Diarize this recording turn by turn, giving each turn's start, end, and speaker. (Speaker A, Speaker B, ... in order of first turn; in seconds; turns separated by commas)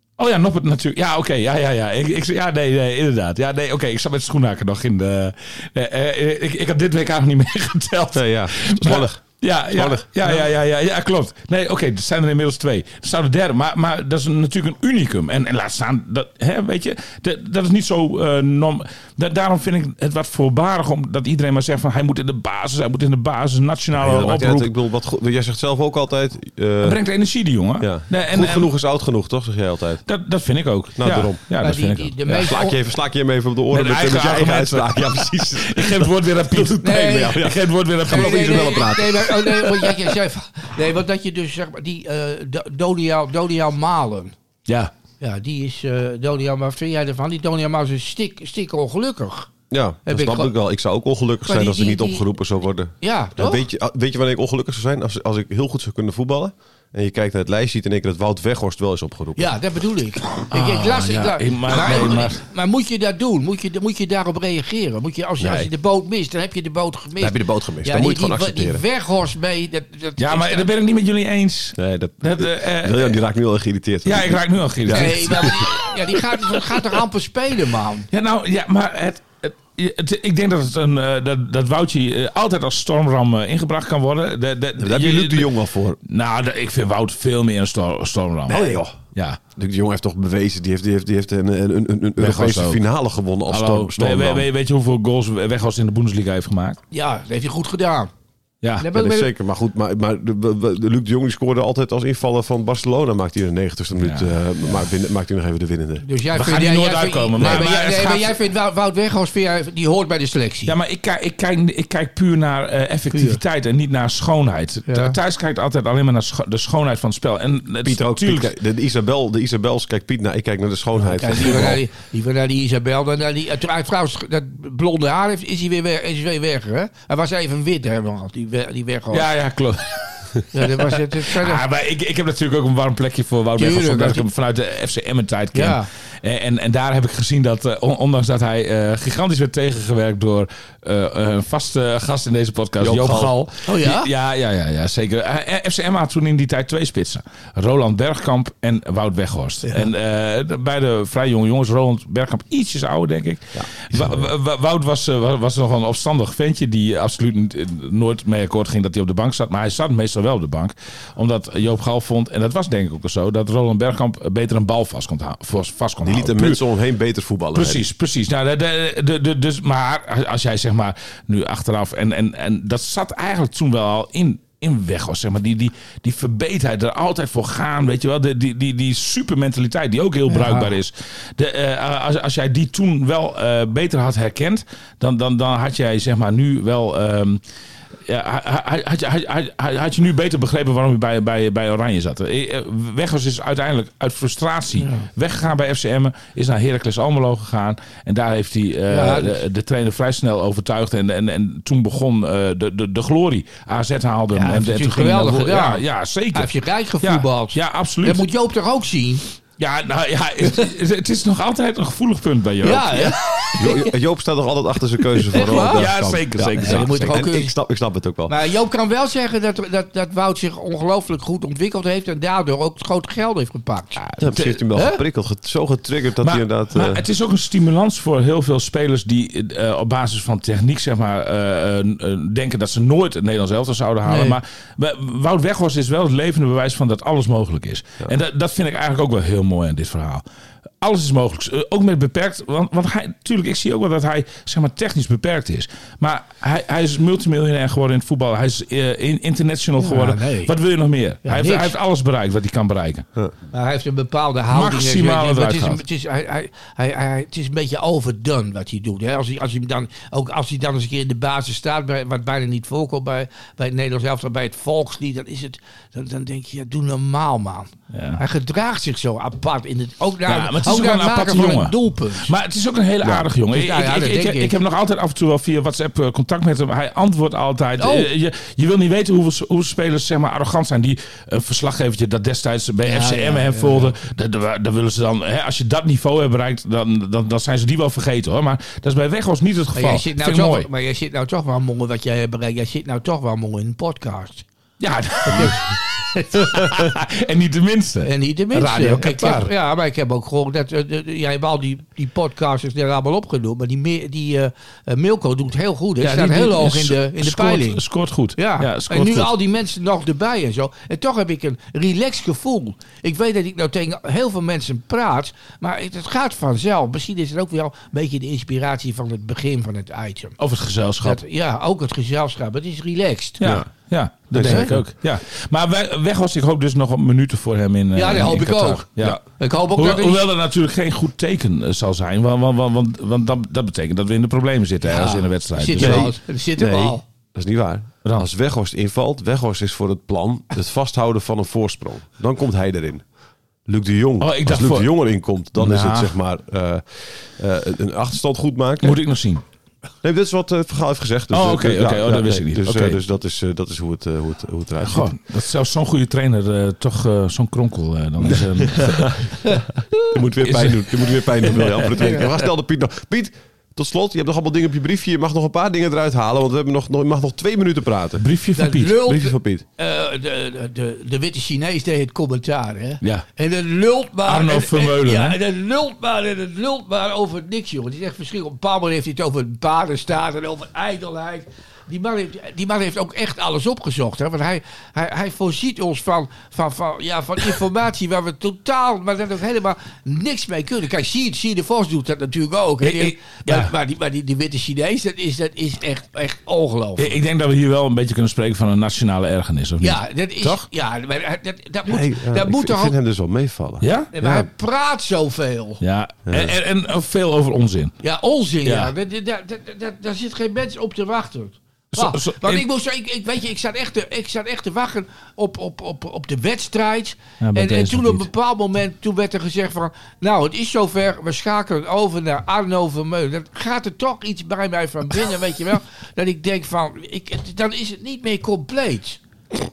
Speaker A: 0.2-24.7, Speaker B: 8.1-10.4, Speaker B: 23.9-27.0, Speaker A: 26.8-28.7, Speaker B: 27.8-30.1, Speaker A: 30.1-32.5, Speaker B: 30.9-31.4, Speaker C: 31.6-32.8, Speaker B: 32.3-39.7, Speaker A: 33.7-39.4, Speaker C: 36.8-37.4, Speaker C: 38.1-44.3, Speaker C: 45.2-49.5, Speaker B: 49.7-59.6, Speaker C: 50.0-50.6, Speaker C: 51.5-52.2, Speaker C: 53.0-53.6, Speaker C: 59.4-70.7, Speaker A: 60.4-62.4, Speaker B: 65.4-65.7, Speaker B: 67.2-68.8, Speaker A: 70.2-73.2, Speaker B: 71.8-75.7, Speaker A: 74.0-75.7, Speaker C: 74.9-78.1, Speaker A: 78.1-85.5, Speaker B: 84.8-86.0, Speaker A: 86.0-89.4, Speaker B: 88.5-89.0, Speaker B: 89.6-94.5, Speaker A: 92.2-92.8, Speaker A: 93.5-96.8, Speaker C: 96.9-98.1, Speaker A: 98.6-98.9, Speaker C: 98.8-99.3, Speaker B: 98.9-106.1, Speaker A: 104.0-104.7, Speaker C: 106.0-110.7, Speaker A: 106.3-108.3, Speaker A: 110.7-118.5, Speaker C: 113.1-113.4, Speaker C: 114.9-115.2, Speaker B: 117.8-121.8, Speaker C: 121.0-129.3, Speaker A: 121.5-121.8, Speaker A: 129.1-166.6, Speaker C: 130.5-131.7, Speaker C: 133.6-134.2, Speaker C: 135.5-135.9, Speaker B: 142.8-143.3, Speaker C: 143.7-144.1, Speaker C: 149.6-149.9, Speaker B: 153.6-154.1, Speaker B: 166.0-167.8, Speaker A: 167.5-187.4, Speaker C: 180.3-180.8, Speaker A: 188.1-208.2, Speaker C: 194.8-195.1, Speaker C: 198.9-199.4, Speaker C: 204.3-205.8, Speaker C: 206.3-209.2, Speaker A: 209.6-213.2, Speaker C: 212.6-213.9, Speaker B: 213.6-218.3, Speaker C: 215.3-215.9, Speaker A: 215.4-217.3, Speaker C: 216.6-217.5, Speaker C: 218.3-224.1, Speaker A: 224.0-224.5, Speaker B: 224.2-227.0, Speaker C: 224.7-225.0, Speaker A: 226.2-240.2, Speaker C: 234.1-234.4, Speaker A: 240.8-253.1, Speaker C: 249.8-250.5, Speaker C: 251.2-251.7, Speaker C: 253.5-272.3, Speaker A: 254.5-255.8, Speaker A: 267.9-268.2, Speaker A: 270.3-290.7, Speaker C: 273.0-274.6, Speaker C: 277.8-278.1, Speaker C: 282.9-284.1, Speaker C: 289.7-294.4, Speaker A: 294.8-299.5, Speaker C: 295.3-295.6, Speaker C: 298.0-307.8, Speaker A: 306.0-309.3, Speaker C: 308.4-320.4, Speaker A: 320.4-321.2, Speaker C: 321.0-323.4, Speaker A: 323.4-329.2, Speaker B: 323.4-323.7, Speaker B: 324.3-324.8, Speaker C: 324.3-324.8, Speaker C: 327.9-330.3, Speaker A: 329.7-336.1, Speaker C: 334.8-337.0, Speaker B: 335.8-343.0, Speaker B: 343.6-349.0, Speaker A: 344.2-344.9, Speaker A: 345.6-346.1, Speaker A: 348.8-349.4, Speaker B: 350.0-355.1, Speaker A: 351.3-353.0, Speaker A: 354.8-359.3, Speaker B: 358.2-368.2, Speaker A: 360.4-361.9, Speaker C: 362.0-362.2, Speaker A: 368.2-369.0, Speaker C: 368.6-397.2, Speaker B: 368.9-369.6, Speaker A: 374.2-375.4, Speaker A: 392.8-393.7, Speaker A: 397.0-400.6, Speaker C: 399.8-402.9, Speaker B: 401.9-404.5, Speaker A: 403.8-404.1, Speaker C: 404.1-405.8, Speaker A: 405.8-407.9, Speaker B: 406.3-406.6, Speaker C: 408.0-429.2, Speaker A: 408.6-408.9, Speaker A: 411.9-412.6, Speaker A: 417.4-418.3